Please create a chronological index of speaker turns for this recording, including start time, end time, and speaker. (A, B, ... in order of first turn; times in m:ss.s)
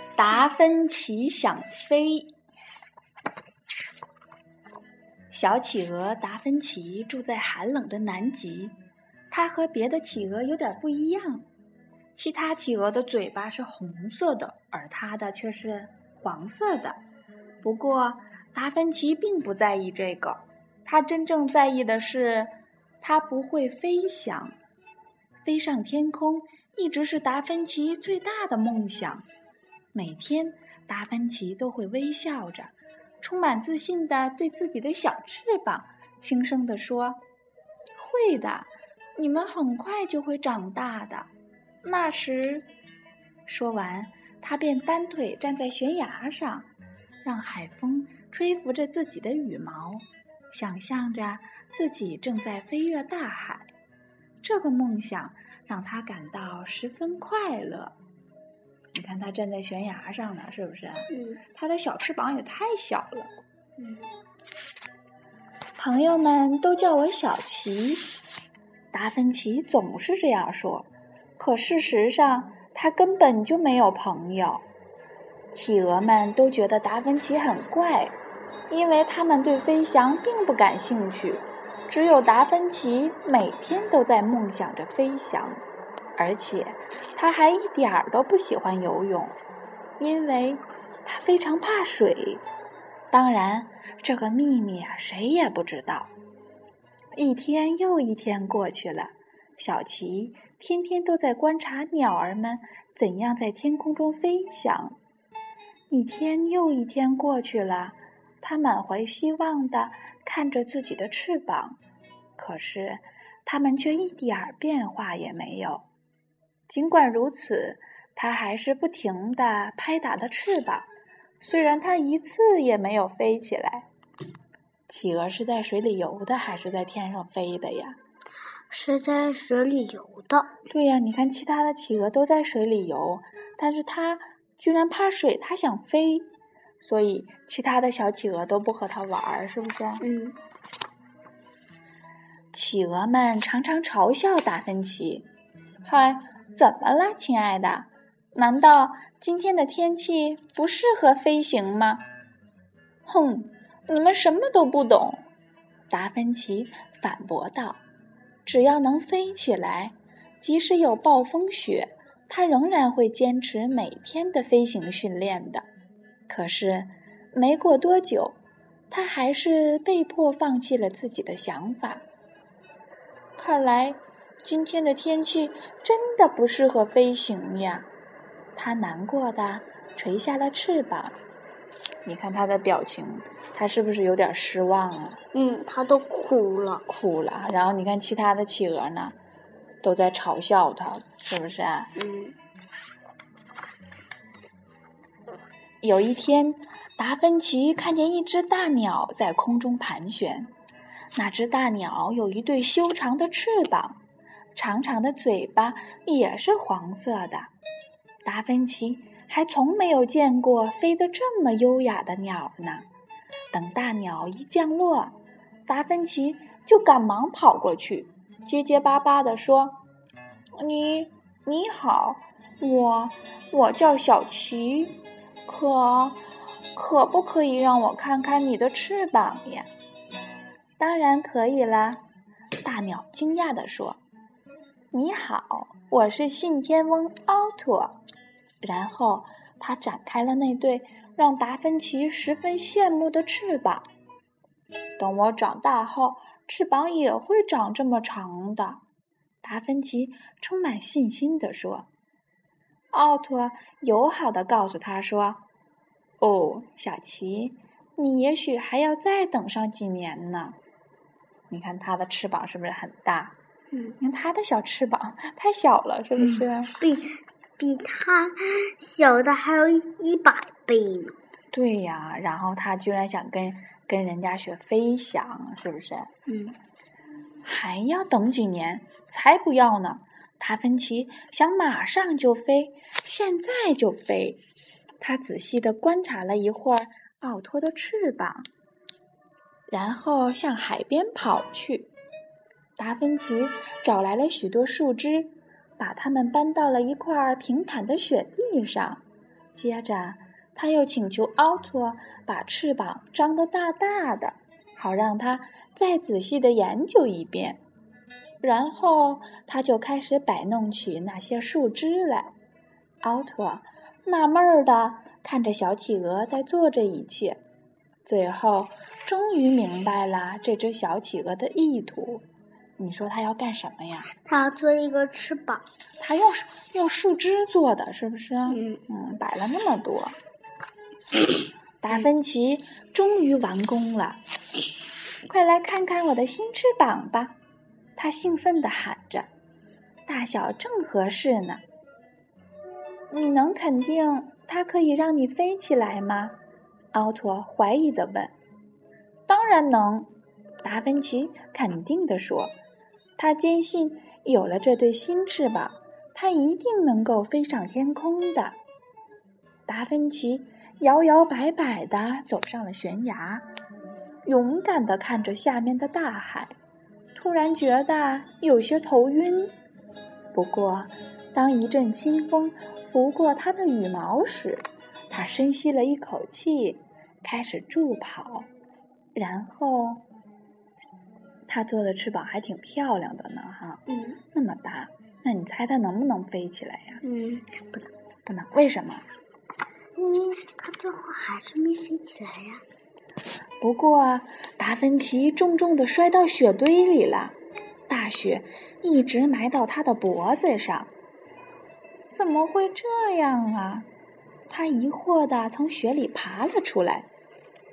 0:00.2-0:02.3 A
0:05.3-0:08.8 A
0:09.3-0:11.5 A
0:12.1-0:17.0 A
0:17.6-0:24.6 A
0:25.4-0:29.3 A
0:29.9-0:37.2 A
0:38.0-0:41.3 A
0:41.8-0:42.7 A
0:43.5-0:46.7 A
0:47.2-0:53.7 A
0:54.4-0:58.0 A
0:59.0-1:03.3 A
1:01.1-1:01.4 B
1:05.8-1:08.1 A
1:08.9-1:14.6 A
1:15.5-1:18.2 A
1:18.7-1:25.6 A
1:26.2-1:29.4 A
1:30.0-1:32.4 A
1:33.1-1:36.1 A
1:37.2-1:45.0 A
1:45.9-1:51.8 A
1:52.4-1:55.9 A
1:56.7-2:00.9 A
2:01.4-2:03.9 A
2:04.9-2:08.0 A
2:08.7-2:10.5 B
2:10.7-2:16.3 A
2:16.8-2:20.0 A
2:20.0-2:20.4 B
2:22.5-2:25.3 A
2:25.8-2:32.0 A
2:33.1-2:35.3 A
2:35.9-2:37.8 A
2:38.4-2:45.7 A
2:46.3-2:48.4 A
2:48.9-2:52.0 A
2:53.4-2:57.9 A
2:58.6-3:01.2 A
3:02.0-3:05.2 A
3:05.3-3:06.8 B
3:06.9-3:09.2 A
3:09.8-3:11.9 A
3:12.0-3:12.4 B
3:15.8-3:20.5 A
3:21.2-3:24.0 A
3:24.6-3:27.5 A
3:28.2-3:32.9 A
3:33.5-3:35.2 A
3:35.7-3:39.8 A
3:40.6-3:46.2 A
3:46.7-3:49.7 A
3:50.8-3:52.0 A
3:52.6-3:54.0 A
3:54.9-3:58.0 A
3:58.6-4:03.9 A
4:05.0-4:08.8 A
4:09.4-4:11.9 A
4:12.9-4:15.4 A
4:16.2-4:20.6 A
4:21.5-4:23.4 A
4:24.0-4:26.7 A
4:26.2-4:31.2 B
4:31.5-4:36.1 A
4:36.3-4:36.6 B
4:37.4-4:44.4 A
4:45.0-4:48.5 A
4:49.7-4:51.9 A
4:52.8-4:59.0 A
4:59.5-5:07.6 A
5:08.4-5:12.3 A
5:13.0-5:17.4 A
5:18.0-5:22.2 A
5:22.8-5:24.1 A
5:24.2-5:25.7 B
5:26.0-5:30.2 A
5:28.5-5:28.8 B
5:31.8-5:34.2 A
5:35.3-5:37.4 A
5:38.0-5:39.3 A
5:40.1-5:41.6 A
5:43.1-5:46.4 A
5:46.9-5:48.3 A
5:49.3-5:50.1 A
5:50.6-5:52.5 A
5:53.2-5:58.6 A
5:59.7-6:03.5 A
6:04.2-6:06.5 A
6:07.2-6:09.5 A
6:10.3-6:18.5 A
6:19.2-6:20.0 A
6:21.5-6:27.0 A
6:27.0-6:27.9 B
6:28.2-6:29.0 A
6:30.0-6:32.6 B
6:33.6-6:37.4 A
6:37.9-6:40.9 A
6:42.1-6:43.9 A
6:44.5-6:47.1 A